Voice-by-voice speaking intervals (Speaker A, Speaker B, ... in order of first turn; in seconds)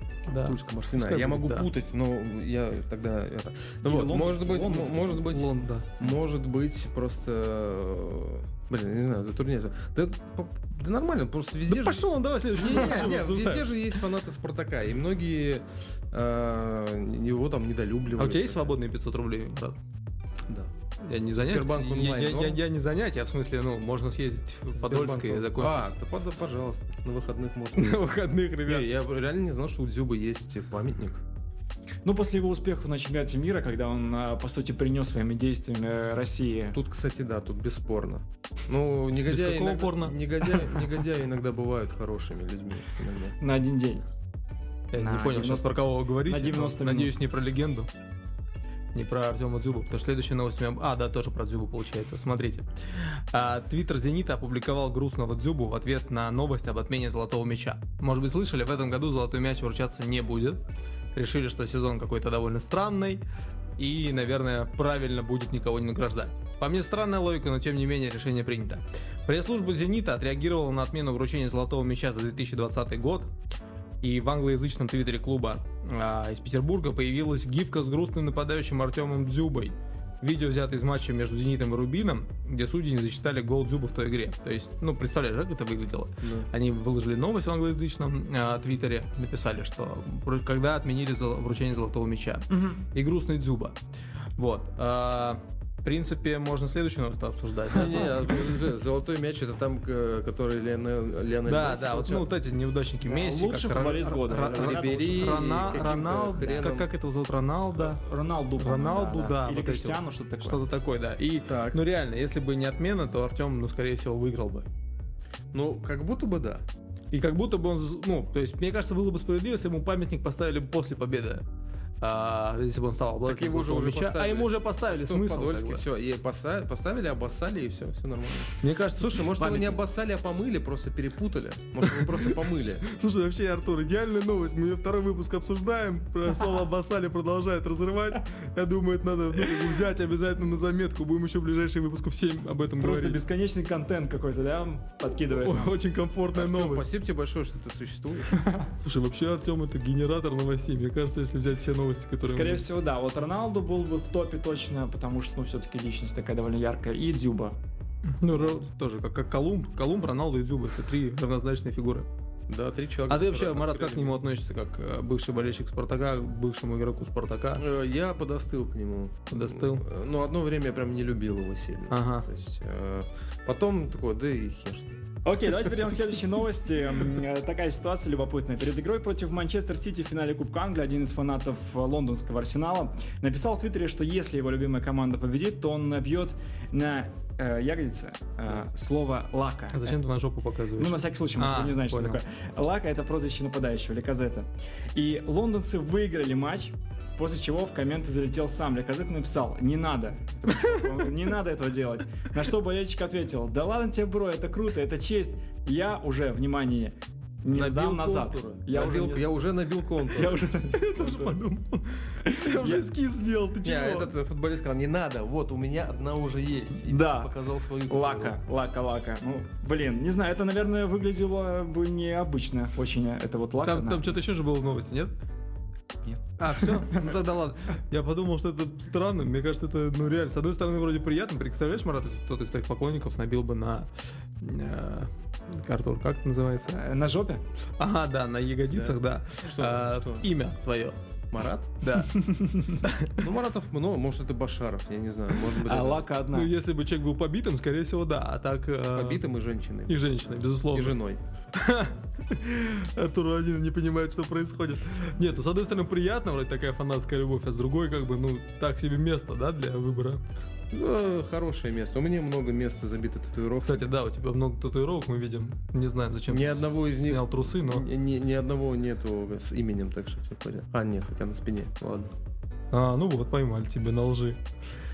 Speaker A: 0.3-1.7, 5.1-5.9, 11.7-13.7, 18.2-19.8, 21.0-25.9, 27.8-28.9, 39.2-40.7, 44.9-47.9, 48.9-60.6, 61.1-63.2, 63.8-73.3, 74.0-93.8, 94.4-98.5, 101.5-108.0, 108.6-114.7, 117.1-121.4, 122.0-125.8, 128.6-129.8, 131.8-143.2, 145.3-146.8, 148.8-152.7, 158.2-162.1, 163.1-167.6, 169.3-169.8, 171.9-172.3, 189.7-192.2, 210.7-214.1, 223.6-225.1, 226.4-233.9, 234.4-236.8, 237.8-241.0, 241.8-243.2, 246.3-249.2, 249.9-250.9, 251.5-260.2, 263.6-267.9, 272.7-274.4
Speaker B: 0.3-18.7, 21.4-22.6, 24.7-28.1, 28.6-31.2, 36.7-43.3, 86.2-86.5, 97.7-102.3, 104.5-106.9, 111.5-111.8, 115.5-116.7, 123.2-132.8, 146.3-148.5, 162.5-164.2, 167.6-175.0, 207.5-210.4, 213.6-218.4, 238.7-240.3, 241.3-241.8, 243.2-246.1, 248.9-250.1, 250.7-251.2, 260.7-263.9, 266.3-272.1
Speaker C: 3.8-5.2, 32.0-36.8, 43.4-44.0, 44.9-47.1, 92.5-92.8, 103.0-105.9, 107.8-110.6, 142.8-145.7, 152.2-157.6, 158.3-158.6, 175.2-190.0, 190.8-209.3, 210.0-211.4, 212.2-212.8, 216.8-217.3, 217.9-224.1, 226.1-227.1, 236.6-237.4, 242.1-242.8, 245.6-246.5